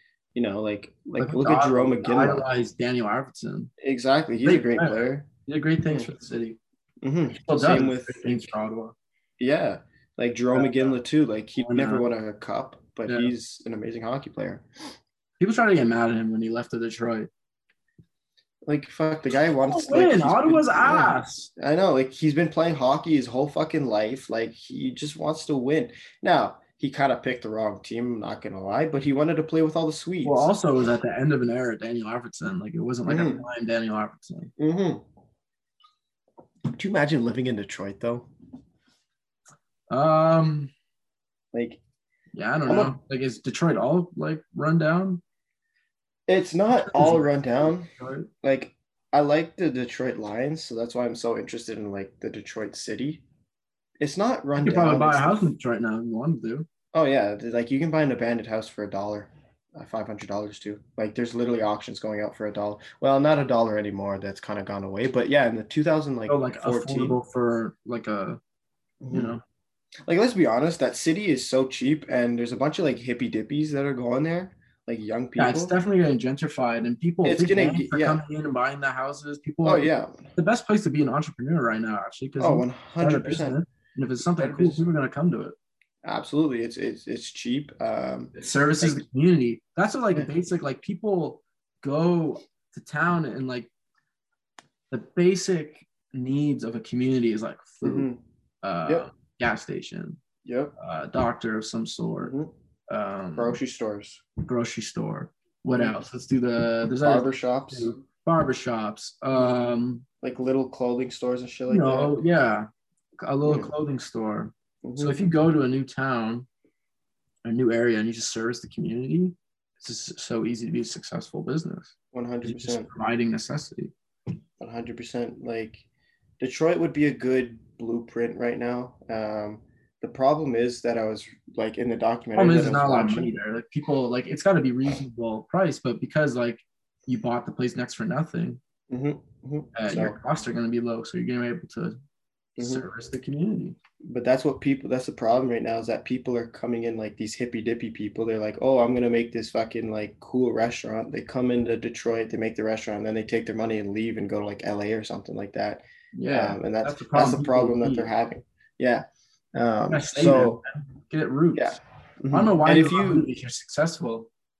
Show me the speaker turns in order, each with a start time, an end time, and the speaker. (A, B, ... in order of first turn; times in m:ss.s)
0:00.3-0:02.4 A
0:01.2-0:03.7 B
0:03.8-0:05.3 A
0:04.4-0:06.6 B
0:07.0-0:08.5 A
0:07.3-0:08.9 B
0:09.4-0:14.7 A
0:10.5-0:10.9 B
0:11.6-0:12.1 B
0:13.0-0:13.3 B
0:15.4-0:17.3 B
0:18.6-0:30.5 A
0:19.7-0:21.5 B
0:30.2-0:34.5 B
0:33.1-0:33.4 A
0:34.6-0:35.0 A
0:36.7-0:38.3 A
0:39.9-0:40.7 B
0:41.5-0:41.8 A
0:42.3-0:45.2 B
0:42.7-0:43.0 A
0:46.3-0:47.9 A
0:46.7-0:48.3 B
0:48.4-0:53.2 A
0:54.0-0:55.5 A
0:54.6-0:56.7 B
0:56.9-1:07.2 A
1:06.3-1:08.4 B
1:09.0-1:09.4 A
1:09.1-1:09.4 B
1:10.1-1:15.7 A
1:15.4-1:25.5 B
1:17.2-1:18.2 A
1:19.6-1:20.3 A
1:22.4-1:23.6 A
1:24.4-1:24.8 A
1:26.0-1:29.0 A
1:28.4-1:33.7 B
1:34.9-1:38.1 B
1:37.8-1:38.2 A
1:38.6-1:40.2 B
1:40.4-1:40.7 A
1:40.8-1:42.3 B
1:42.9-1:43.6 B
1:43.3-1:44.2 A
1:44.4-1:50.0 B
1:45.7-1:46.0 A
1:47.0-1:47.9 A
1:50.2-1:52.2 A
1:51.7-1:56.5 B
1:53.4-1:53.7 A
1:54.8-1:55.2 A
1:57.4-2:03.9 B
2:02.1-2:02.9 A
2:04.6-2:05.8 A
2:06.4-2:13.3 A
2:12.4-2:18.6 B
2:18.9-2:20.2 A
2:19.7-2:22.0 B
2:22.6-2:22.8 A
2:22.6-2:23.8 B
2:24.0-2:40.6 A
2:36.1-2:38.1 B
2:39.9-2:44.3 B
2:41.5-2:43.3 A